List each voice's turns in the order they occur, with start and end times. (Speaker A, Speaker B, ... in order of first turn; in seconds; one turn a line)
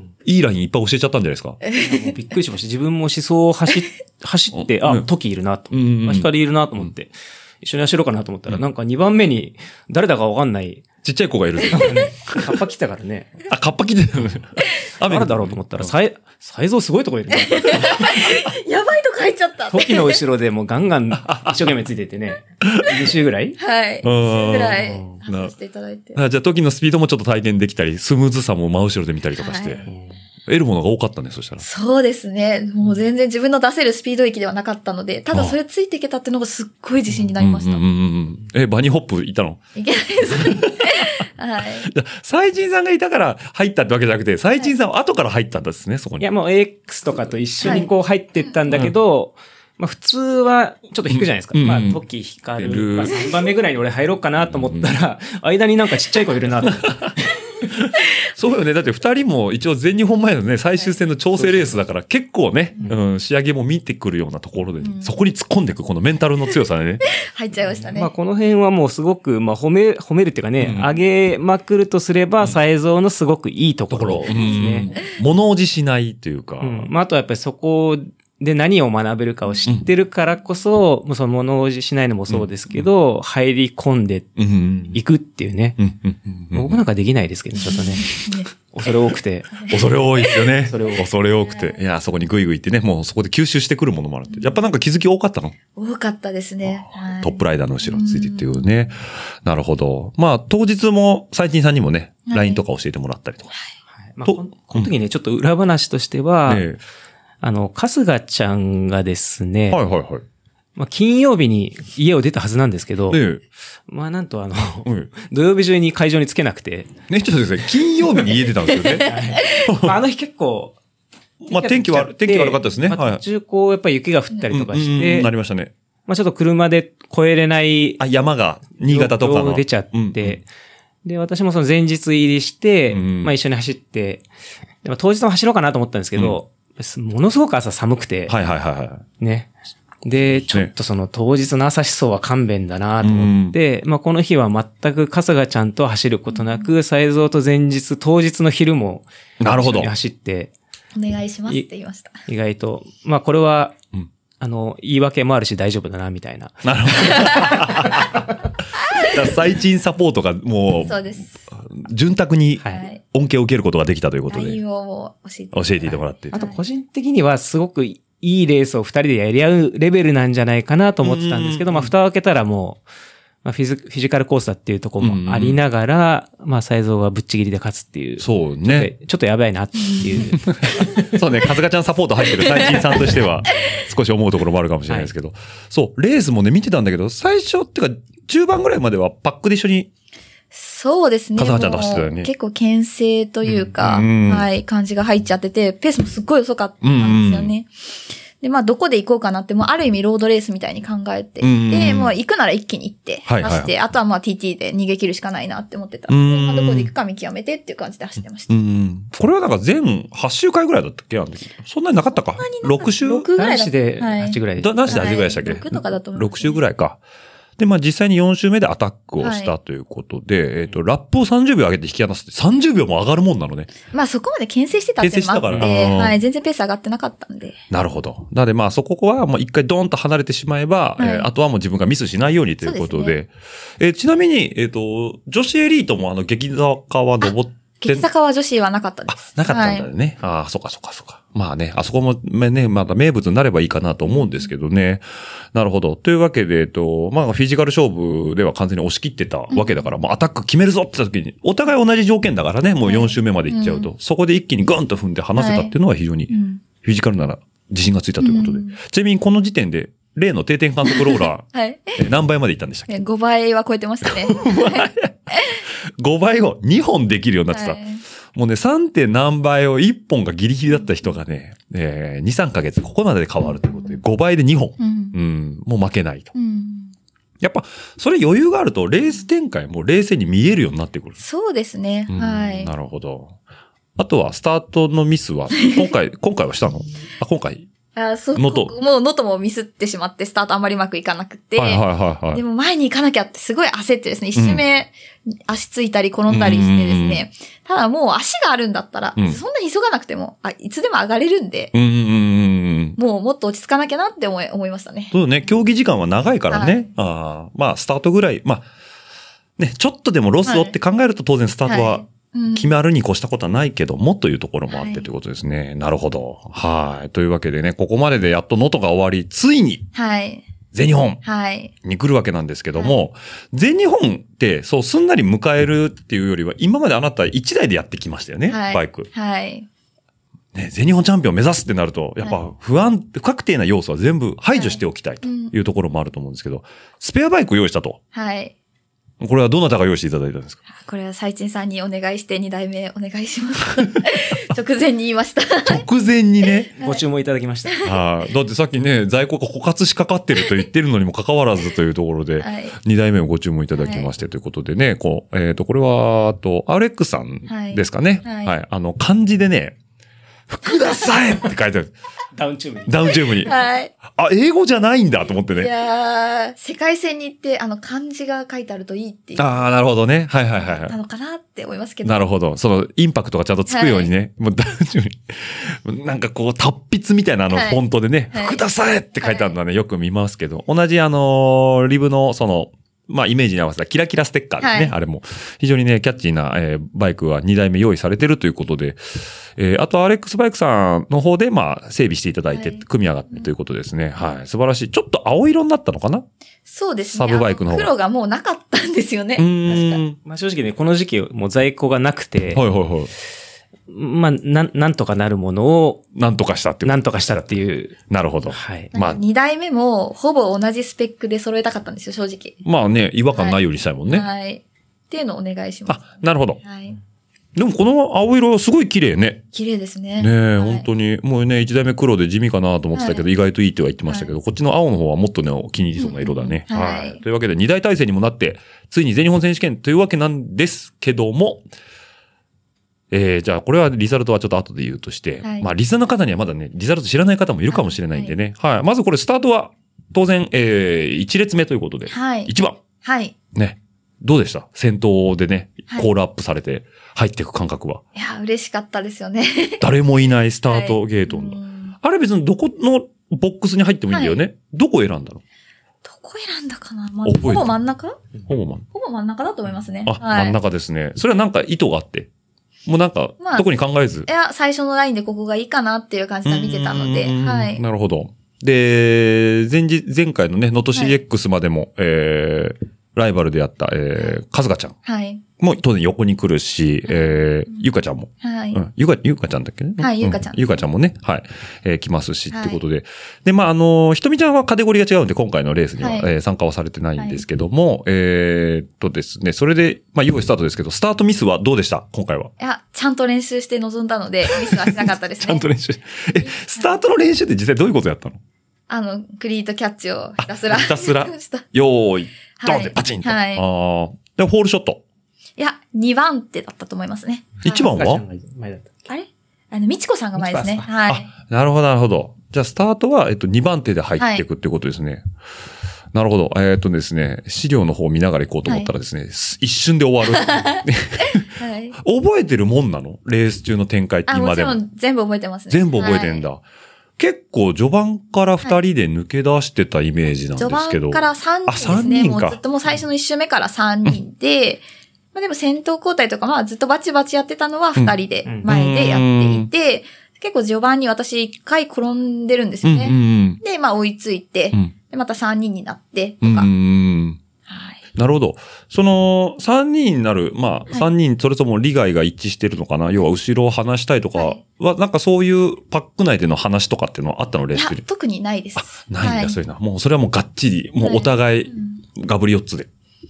Speaker A: 0.2-1.6
Speaker B: 1.6-2.1
Speaker C: 1.8-10.9
Speaker A: 4.5-5.1
Speaker A: 5.7-6.3
Speaker A: 11.0-12.6
Speaker C: 11.7-13.4
Speaker A: 13.5-15.9
Speaker C: 15.0-18.1
Speaker B: 17.4-20.2
Speaker C: 19.7-23.6
Speaker A: 21.2-21.7
Speaker B: 23.6-26.2
Speaker A: 24.0-25.5
Speaker C: 24.8-25.2
Speaker A: 26.1-29.9
Speaker B: 29.4-29.9
Speaker A: 30.5-31.6
Speaker B: 31.6-37.8
Speaker A: 35.3-35.6
Speaker A: 37.4-39.6
Speaker B: 39.8-41.9
Speaker A: 40.3-41.1
Speaker A: 41.8-46.3
Speaker C: 46.2-57.3
Speaker B: 47.6-47.9
Speaker A: 48.7-48.9
Speaker A: 51.1-52.0
Speaker A: 52.6-53.2
Speaker A: 54.5-54.9
Speaker A: 56.7-57.1
Speaker A: 57.8-67.0
Speaker C: 61.3-61.8
Speaker B: 64.8-65.1
Speaker B: 67.2-68.1
Speaker C: 67.9-74.9
Speaker A: 70.6-70.9
Speaker A: 73.9-76.9
Speaker C: 76.6-84.4
Speaker A: 82.3-82.9
Speaker A: 84.4-85.0
Speaker C: 84.9-85.8
Speaker A: 85.8-86.8
Speaker C: 86.5-89.7
Speaker B: 87.6-88.5
Speaker A: 89.7-95.6
Speaker C: 90.7-91.1
Speaker B: 94.3-94.5
Speaker B: 95.8-98.7
Speaker A: 96.7-103.5
Speaker B: 102.3-102.6
Speaker C: 104.0-106.7
Speaker A: 104.2-104.9
Speaker A: 106.5-106.8
Speaker C: 107.4-109.8
Speaker A: 109.7-110.2
Speaker C: 110.8-113.2
Speaker A: 113.1-113.4
Speaker C: 113.9-116.9
Speaker A: 114.8-115.1
Speaker A: 117.1-120.0
Speaker C: 119.0-120.8
Speaker A: 121.4-123.2
Speaker C: 121.5-125.3
Speaker A: 124.5-125.7
Speaker C: 126.1-128.0
Speaker A: 128.0-130.4
Speaker C: 128.8-130.5
Speaker C: 131.1-134.2
Speaker A: 132.9-133.3
Speaker C: 134.8-138.4
Speaker A: 138.3-139.1
Speaker C: 139.2-139.5
Speaker C: 140.0-150.5
Speaker A: 140.4-140.7
Speaker A: 143.0-143.6
Speaker B: 146.3-146.7
Speaker A: 149.4-149.9
Speaker B: 151.0-152.2
Speaker C: 152.3-153.8
Speaker C: 154.4-158.1
Speaker A: 156.6-158.2
Speaker B: 157.1-157.6
Speaker A: 159.0-164.6
Speaker B: 160.9-161.3
Speaker B: 162.7-163.0
Speaker B: 164.3-166.6
Speaker A: 165.5-166.4
Speaker C: 166.3-172.8
Speaker A: 171.0-171.9
Speaker C: 173.4-181.0
Speaker A: 175.0-175.6
Speaker A: 178.2-178.9
Speaker B: 179.8-180.3
Speaker A: 180.5-189.9
Speaker B: 190.5-197.7
Speaker A: 191.4-192.3
Speaker A: 193.5-194.5
Speaker A: 196.8-197.5
Speaker B: 198.4-208.5
Speaker A: 201.4-202.1
Speaker A: 203.3-203.7
Speaker A: 206.1-206.9
Speaker A: 208.5-213.3
Speaker B: 212.1-216.6
Speaker C: 213.3-215.2
Speaker A: 214.6-217.0
Speaker A: 217.6-223.7
Speaker B: 219.2-219.6
Speaker B: 223.9-227.6
Speaker A: 225.0-226.2
Speaker A: 227.7-238.1
Speaker B: 231.0-231.3
Speaker B: 232.6-233.2
Speaker B: 237.2-239.9
Speaker A: 239.1-263.0
Speaker B: 244.1-244.5
Speaker B: 249.5-249.9
Speaker B: 252.8-253.9
Speaker B: 255.3-255.7
Speaker B: 256.3-256.6
Speaker B: 258.2-258.8
Speaker B: 260.9-262.0
Speaker B: 262.9-265.6
Speaker A: 264.1-265.1
Speaker A: 266.0-267.8
Speaker B: 267.5-268.0
Speaker A: 268.3-276.3
Speaker B: 273.5-274.0
Speaker B: 274.8-275.2
Speaker B: 276.3-276.9
Speaker A: 277.4-281.2
Speaker B: 281.2-282.7
Speaker A: 282.1-283.4
Speaker A: 284.0-287.7
Speaker B: 285.6-285.9
Speaker B: 287.9-301.7
Speaker A: 288.4-288.8
Speaker A: 291.6-292.4
Speaker A: 294.4-294.6
Speaker A: 296.3-297.2
Speaker A: 301.7-303.0
Speaker B: 303.0-305.1
Speaker A: 305.1-308.7
Speaker B: 306.5-306.9
Speaker A: 309.6-319.9
Speaker B: 310.4-310.7
Speaker B: 311.7-312.7
Speaker B: 314.7-315.1
Speaker B: 319.9-320.4
Speaker A: 320.7-321.2
Speaker B: 321.2-321.7
Speaker A: 321.8-329.1
Speaker B: 322.8-323.0
Speaker B: 328.5-329.7
Speaker A: 330.5-338.0
Speaker B: 334.5-335.5
Speaker B: 338.1-338.5
Speaker A: 339.2-340.6
Speaker B: 340.7-345.8
Speaker A: 345.6-346.7
Speaker C: 346.8-347.7
Speaker A: 347.8-359.8
Speaker B: 352.4-352.8
Speaker B: 353.7-354.1
Speaker B: 357.5-358.5
Speaker A: 360.5-361.9
Speaker C: 362.4-363.5
Speaker A: 362.9-365.7
Speaker B: 363.4-363.9
Speaker B: 365.5-369.7
Speaker A: 369.4-370.9
Speaker B: 370.6-372.2
Speaker A: 372.0-396.2
Speaker B: 373.7-374.1
Speaker B: 377.5-377.8
Speaker B: 378.3-378.6
Speaker B: 379.2-379.6
Speaker B: 384.6-384.9
Speaker B: 392.5-393.5
Speaker B: 396.7-400.0
Speaker A: 397.1-397.9
Speaker A: 399.4-400.2
Speaker C: 400.2-402.6
Speaker A: 402.5-403.1
Speaker C: 403.9-406.1
Speaker A: 406.1-409.2
Speaker C: 406.8-408.0
Speaker C: 408.5-408.9
Speaker B: 408.9-412.6
Speaker A: 412.6-414.3
Speaker B: 413.3-417.0
Speaker A: 415.9-416.6
Speaker A: 417.6-419.4
Speaker B: 419.5-420.9
Speaker A: 420.2-431.6
Speaker B: 422.9-423.2
Speaker B: 424.1-424.3
Speaker B: 426.0-427.2
Speaker A: 433.1-442.8
Speaker B: 435.4-435.7
Speaker B: 437.7-438.4
Speaker B: 442.1-443.4
Speaker A: 443.5-448.0
Speaker B: 448.1-449.9
Speaker A: 449.8-455.4
Speaker B: 450.7-452.0
Speaker B: 454.1-454.4
Speaker B: 456.0-458.2
Speaker A: 457.2-457.7
Speaker A: 458.5-458.8
Speaker B: 458.9-460.6
Speaker A: 460.1-462.3
Speaker A: 462.9-464.3
Speaker B: 463.4-463.7
Speaker B: 464.3-467.8
Speaker A: 466.5-475.0
Speaker B: 475.1-475.4
Speaker A: 475.6-492.5
Speaker B: 477.1-477.9
Speaker B: 478.4-478.8
Speaker B: 480.0-480.8
Speaker B: 482.5-482.8
Speaker B: 486.0-486.3
Speaker B: 487.2-487.4
Speaker B: 492.6-495.7
Speaker A: 494.5-498.4
Speaker B: 496.3-497.0
Speaker B: 498.9-501.6
Speaker A: 500.4-505.0
Speaker B: 502.6-503.7
Speaker B: 505.6-507.9
Speaker A: 507.6-508.2
Speaker C: 507.7-508.9
Speaker B: 509.1-511.3
Speaker C: 510.4-510.8
Speaker A: 511.1-515.2
Speaker B: 514.2-514.4
Speaker A: 516.1-524.8
Speaker B: 520.4-522.0
Speaker B: 524.3-526.5
Speaker A: 525.7-526.6
Speaker A: 527.2-532.6
Speaker B: 530.6-546.7
Speaker A: 538.6-539.7
Speaker A: 542.8-543.6
Speaker A: 546.4-547.4
Speaker B: 547.7-548.0
Speaker A: 548.1-558.0
Speaker B: 554.4-554.6
Speaker B: 557.7-559.6
Speaker A: 558.8-562.9
Speaker B: 561.0-562.0